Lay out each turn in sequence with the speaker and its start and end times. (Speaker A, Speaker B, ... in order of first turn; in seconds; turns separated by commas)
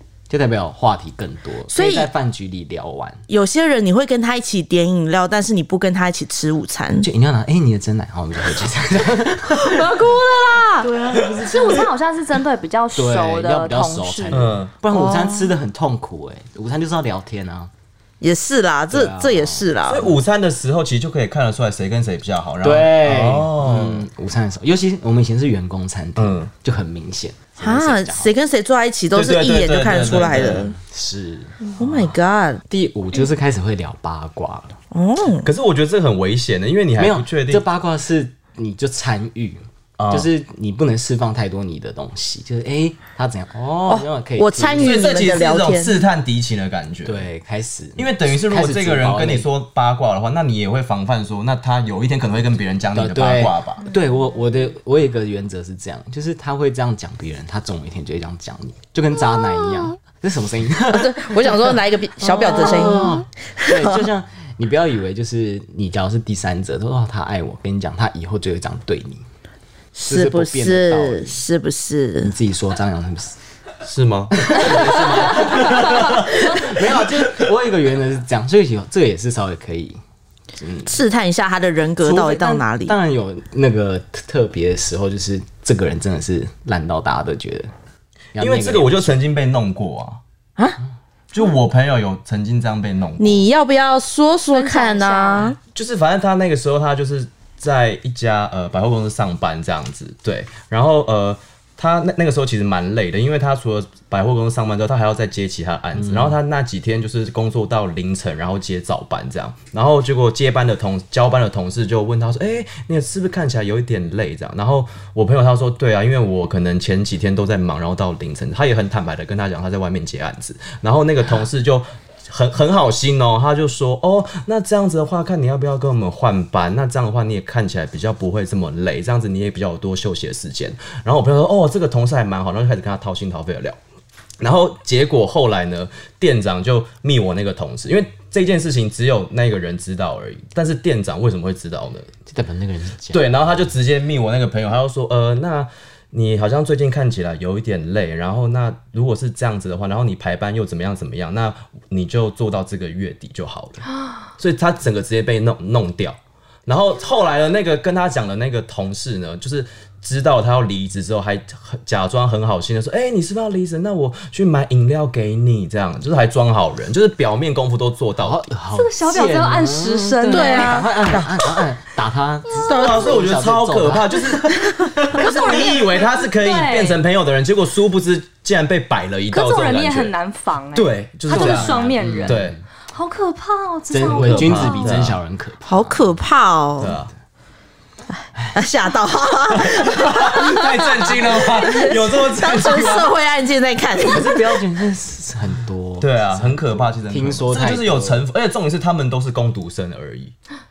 Speaker A: 0.3-3.2, Speaker B: 1.7-2.1, Speaker B: 3.3-7.1, Speaker A: 7.0-10.0, Speaker B: 9.5-10.9, Speaker C: 10.8-14.5, Speaker A: 10.9-11.8, Speaker A: 13.0-17.7, Speaker D: 14.3-14.7, Speaker B: 14.9-15.5, Speaker B: 18.2-20.1, Speaker A: 18.9-19.7, Speaker D: 19.9-24.1, Speaker A: 22.6-28.3, Speaker D: 26.2-26.5, Speaker B: 27.6-30.8, Speaker D: 29.1-30.7, Speaker A: 30.3-32.2, Speaker B: 31.8-32.6, Speaker A: 32.7-34.8, Speaker B: 34.9-35.5, Speaker D: 35.4-37.6, Speaker A: 37.0-45.2, Speaker D: 40.0-40.3, Speaker B: 43.9-46.0, Speaker D: 44.8-47.3, Speaker A: 47.0-49.5, Speaker D: 48.0-53.9, Speaker A: 52.9-69.2, Speaker C: 53.8-54.3, Speaker B: 60.9-64.1, Speaker B: 70.0-72.3, Speaker A: 70.0-71.4, Speaker A: 72.2-73.3, Speaker D: 73.8-76.7, Speaker A: 74.3-80.0, Speaker A: 80.6-81.0, Speaker B: 80.8-83.0, Speaker A: 82.0-87.7, Speaker A: 88.3-89.0, Speaker D: 88.4-90.2, Speaker D: 91.3-93.5, Speaker B: 93.2-95.6, Speaker C: 94.5-95.5, Speaker D: 95.7-133.8, Speaker A: 106.0-106.4, Speaker D: 134.4-142.1, Speaker A: 142.3-143.6, Speaker D: 143.1-153.8, Speaker D: 154.4-168.5, Speaker A: 168.2-174.5, Speaker C: 168.7-170.8, Speaker B: 170.3-171.5, Speaker D: 172.7-180.1, Speaker B: 172.7-173.2, Speaker B: 174.5-175.8, Speaker C: 175.2-177.0, Speaker C: 179.3-185.0, Speaker D: 180.8-182.6, Speaker A: 181.3-182.6, Speaker A: 183.9-186.1, Speaker D: 184.1-185.2, Speaker B: 185.7-187.0, Speaker D: 186.8-187.1, Speaker A: 188.3-188.7, Speaker B: 188.5-194.6, Speaker D: 189.5-193.1, Speaker A: 194.1-198.3, Speaker D: 196.0-200.3